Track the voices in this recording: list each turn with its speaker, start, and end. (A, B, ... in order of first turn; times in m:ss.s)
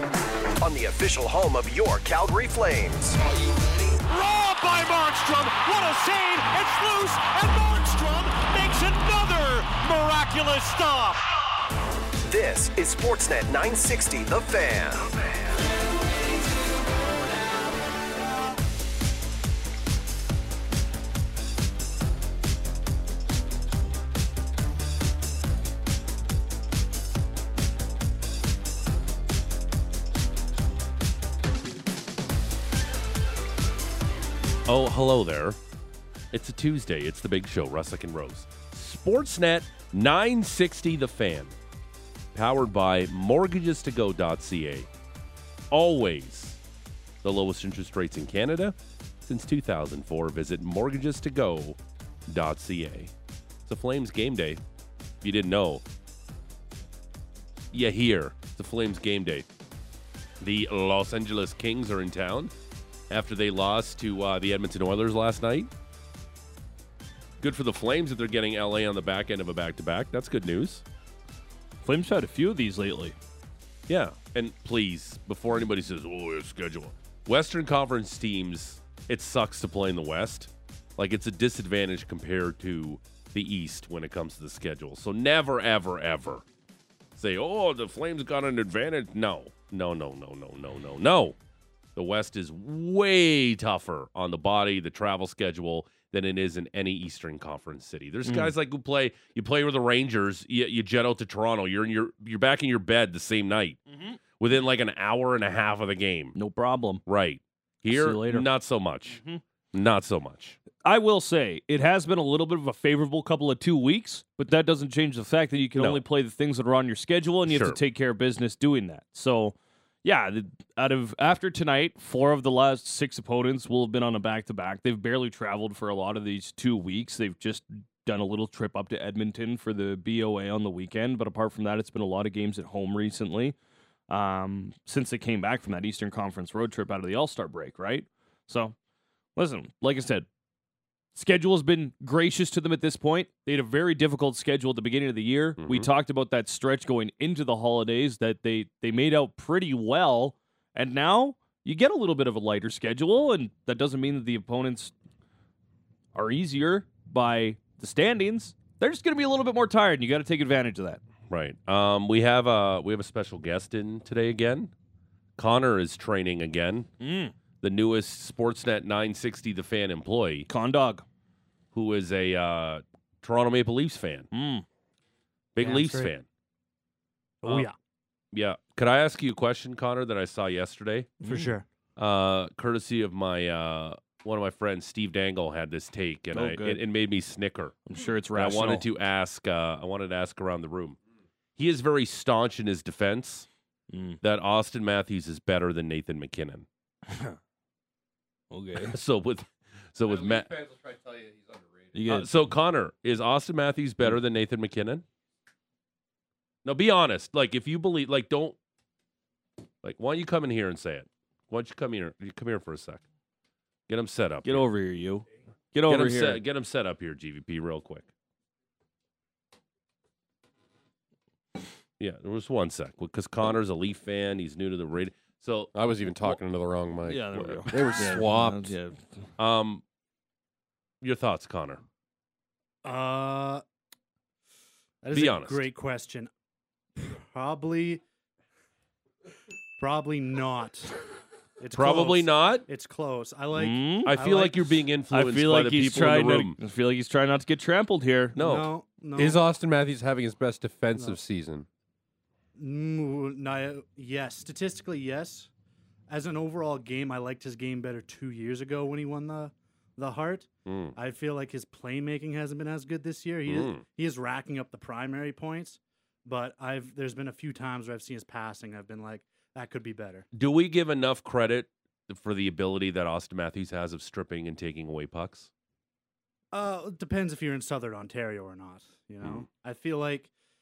0:00.6-0:03.2 A
0:03.5-0:11.2 B
0:12.2-0:15.1 A
0:34.7-0:35.6 C
0:36.3-0:41.5 C
0:42.3-0:44.9 C
0:45.7-0:46.6 C
0:47.2-0:51.8 C
0:52.3-0:53.1 C
0:53.6-0:54.6 C
0:55.2-0:55.8 C
0:57.7-0:59.5 C
1:00.4-1:02.5 C
1:03.1-1:05.7 C
1:07.4-1:10.8 C
1:11.8-1:13.2 D
1:13.9-1:26.4 C
1:27.2-1:31.4 C
1:32.0-1:43.8 C
1:38.2-1:38.5 D
1:43.9-1:44.2 D
1:44.4-1:46.4 C
1:46.3-1:47.0 D
1:47.1-1:49.2 C
1:47.9-1:48.5 D
1:49.1-1:49.4 D
1:49.7-1:50.6 C
1:50.8-2:13.6 D
1:55.8-1:56.0 C
1:57.4-1:57.8 C
2:14.1-2:18.7 D
2:19.4-2:20.3 D
2:21.1-2:34.9 D
2:25.6-2:25.9 C
2:36.1-2:41.0 D
2:41.3-2:44.7 C
2:45.4-2:46.9 C
2:47.0-2:47.3 D
2:47.6-2:50.5 C
2:50.5-2:51.0 D
2:51.7-2:54.3 C
2:54.3-2:54.6 D
2:55.5-2:56.2 C
2:55.6-2:56.1 E
2:57.4-2:57.7 E
2:58.3-3:01.2 C
3:01.2-3:01.5 D
3:01.2-3:01.6 E
3:02.0-3:07.8 C
3:06.3-3:06.8 D
3:07.9-3:08.8 D
3:08.3-3:11.0 C
3:11.6-3:13.5 C
3:13.9-3:14.2 D
3:14.2-3:16.6 C
3:17.1-3:17.4 D
3:18.5-3:19.0 D
3:18.9-3:20.5 C
3:20.0-3:22.0 F
3:21.9-3:22.3 D
3:22.1-3:25.0 C
3:26.6-3:28.6 C
3:29.8-3:33.0 C
3:33.9-3:34.7 C
3:34.4-3:36.4 D
3:35.9-3:38.0 C
3:42.0-3:45.7 C
3:45.7-3:48.7 F
3:47.1-3:49.2 D
3:49.4-3:49.8 C
3:51.0-3:51.8 C
3:52.8-3:53.6 E
3:55.0-3:56.3 E
3:55.1-3:55.6 C
3:57.0-3:58.0 E
3:59.8-4:00.9 E
4:01.6-4:04.8 E
4:01.7-4:02.6 C
4:03.5-4:04.1 D
4:04.0-4:06.6 C
4:05.1-4:08.4 D
4:08.4-4:08.7 C
4:08.4-4:09.4 E
4:09.2-4:11.7 F
4:12.6-4:15.5 E
4:16.1-4:30.2 E
4:20.6-4:20.9 C
4:23.4-4:23.8 C
4:30.3-4:35.5 C
4:36.5-4:40.3 E